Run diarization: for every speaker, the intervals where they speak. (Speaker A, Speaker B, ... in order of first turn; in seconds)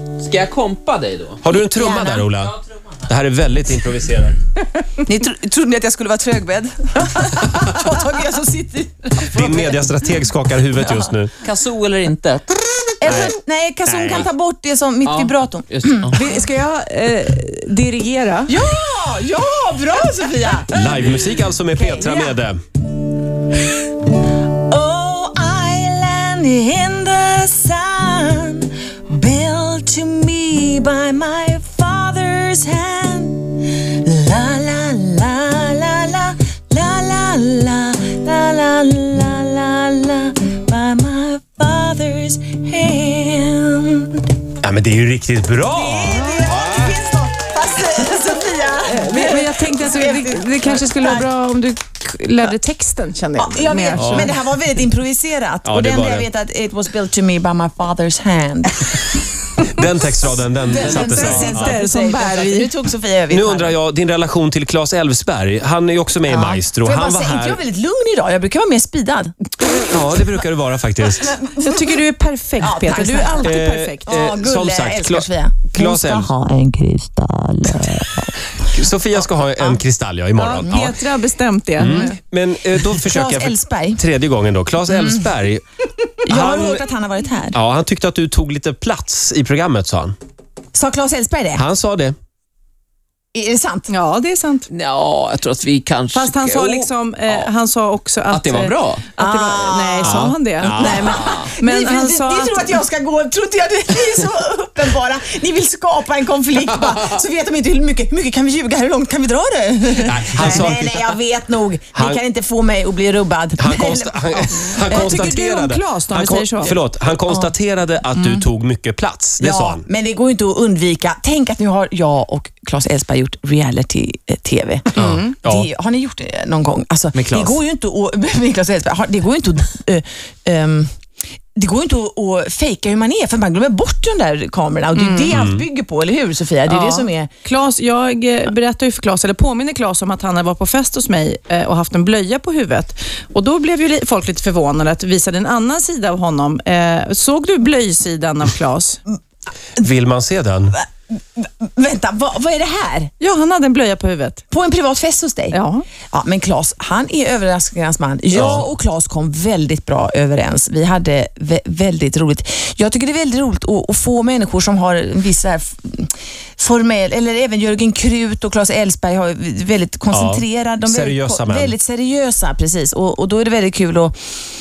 Speaker A: 0.2-1.4, 11.4-12.5, 15.1-16.1, 94.7-96.8, 98.3-99.0
Speaker B: 1.4-4.3, 9.2-11.3, 13.0-13.3, 13.9-14.3, 20.7-22.6, 44.6-47.0, 54.0-54.3, 55.6-56.3, 59.6-61.8, 63.3-67.6, 69.9-71.4, 73.4-76.3, 78.7-80.9, 81.8-85.6, 86.2-86.9, 87.5-90.2, 91.6-92.1, 100.0-101.2, 110.0-111.0, 112.0-112.2, 113.6-119.8, 124.9-125.7, 127.1-127.6, 135.3-135.6, 149.8-150.8, 158.3-158.7, 170.1-171.8
Speaker C: 1.7-2.2, 5.0-9.8, 13.0-16.1, 18.5-21.2, 21.7-22.4, 24.5-44.2, 45.7-51.3, 53.4-59.1, 60.6-63.7, 66.3-69.3, 71.2-72.0, 72.6-78.3, 83.0-84.0, 86.2-87.6, 90.7-91.6, 93.3-93.9, 99.2-114.9, 119.4-130.9, 131.6-137.3, 150.8-153.1, 154.5-155.6, 156.1-174.1
Speaker D: 16.1-18.5, 46.1-46.6, 48.9-54.4, 60.9-62.7, 71.6-74.0, 80.4-82.1, 93.9-94.7, 96.1-102.7, 114.8-116.8, 134.9-135.4, 136.7-149.0, 153.2-154.4, 155.5-155.8